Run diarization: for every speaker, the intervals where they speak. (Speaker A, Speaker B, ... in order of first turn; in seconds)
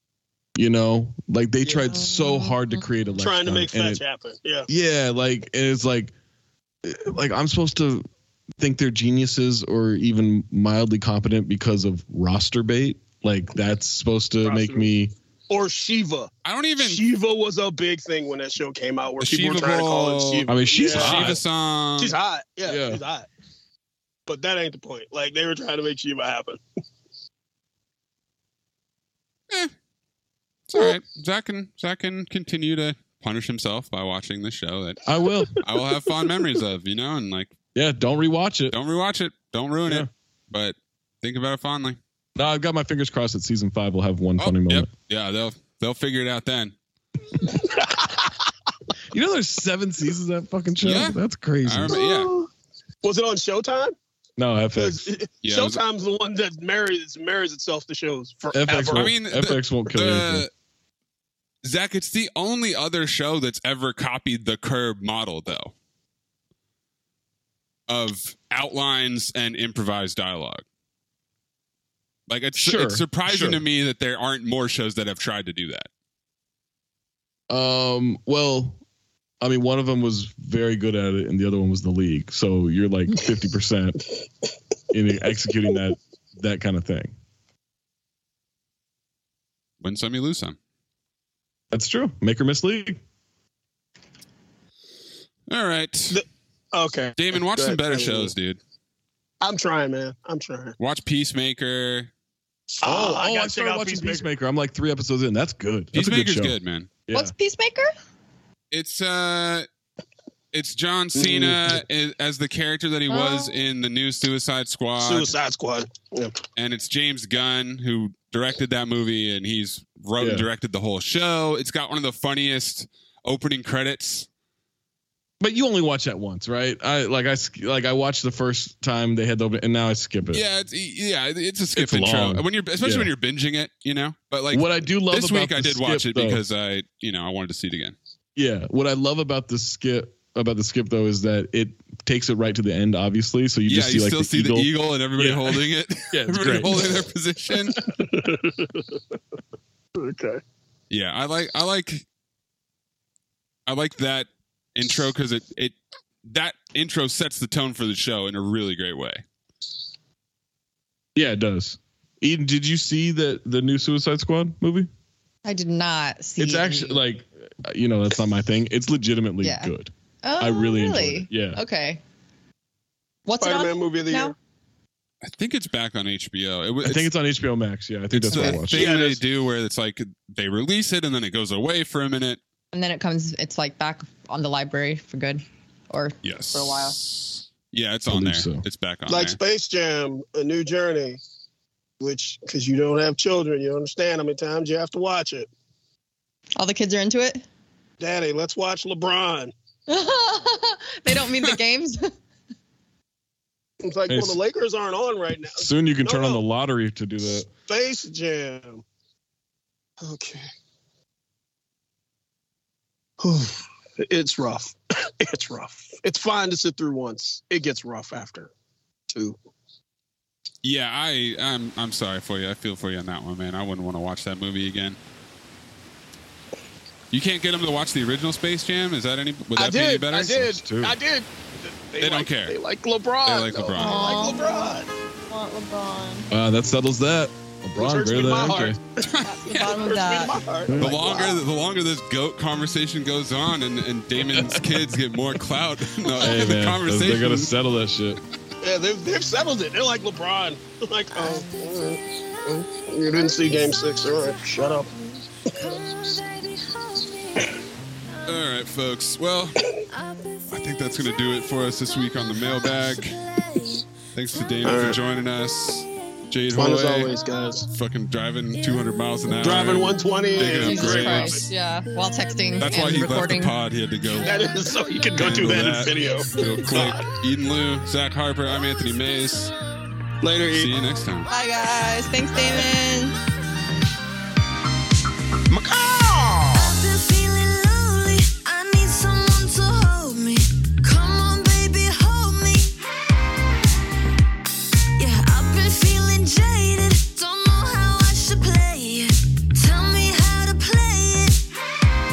Speaker A: 0.6-4.0, 4.7-6.1, 6.8-8.1, 8.6-15.1, 20.5-21.4, 22.7-23.0, 35.1-35.6, 37.8-38.8, 42.4-44.9, 49.1-52.0, 54.4-55.1, 58.5-60.5, 72.5-73.6, 77.5-78.8, 79.4-84.0, 84.9-87.1, 91.7-93.0, 102.8-106.5, 107.1-107.3, 120.2-120.5, 125.4-130.4, 131.8-133.1, 134.5-136.4, 138.4-147.0, 161.2-164.9, 166.4-171.6, 176.8-178.9, 188.1-188.7, 204.1-204.4, 205.5-207.5, 230.4-231.0, 236.3-238.8, 240.7-241.3, 244.3-244.8, 246.1-248.2
Speaker B: 3.2-4.7, 14.4-14.9, 15.5-21.4, 22.0-23.3, 24.3-26.6, 51.9-52.5, 53.0-54.0, 54.8-59.1, 96.1-98.3, 99.4-100.8, 102.8-104.3, 111.2-111.5, 115.0-116.4, 148.0-149.0, 150.0-150.4, 173.4-174.3, 178.7-179.2, 189.1-191.2, 192.0-195.5, 198.0-199.5, 203.8-206.4, 207.7-208.8, 210.0-210.5, 213.2-218.5, 219.1-219.4, 229.6-234.9, 237.8-241.4, 248.6-254.9, 264.7-265.0, 266.5-267.6, 269.4-271.5, 274.2-277.0, 280.2-280.8, 285.7-286.4
Speaker C: 16.4-17.0, 19.2-22.2, 30.7-35.0, 35.6-37.5, 38.7-42.0, 44.4-46.8, 50.8-52.3, 55.4-55.8, 58.9-60.5, 61.6-65.7, 67.9-70.6, 72.3-75.9, 89.8-90.6, 95.5-96.2, 97.2-98.6, 100.8-102.1, 105.9-106.9, 108.7-109.7, 110.5-115.3, 116.6-124.3, 130.3-138.0, 143.7-147.8, 150.9-152.1, 153.7-159.2, 175.2-177.1, 178.1-182.4, 186.2-189.4, 220.6-225.0, 227.1-230.5, 232.0-232.6, 233.2-234.1, 239.0-239.8, 240.8-247.5, 258.3-259.6, 260.5-263.2, 264.1-267.1, 267.7-271.4, 272.6-274.4, 275.1-279.5, 280.5-281.3
Speaker D: 107.1-107.9, 113.1-113.5, 165.4-167.0, 169.4-172.0, 173.3-174.3, 178.3-178.7, 182.7-186.9, 196.6-197.4, 199.9-202.1, 233.8-234.6, 235.3-236.3, 239.2-240.4, 270.4-273.6, 281.3-283.2
Speaker E: 251.1-258.5, 259.9-267.8, 268.5-273.1, 274.0-277.7, 278.4-279.9, 280.7-281.9, 286.5-292.7, 295.0-301.4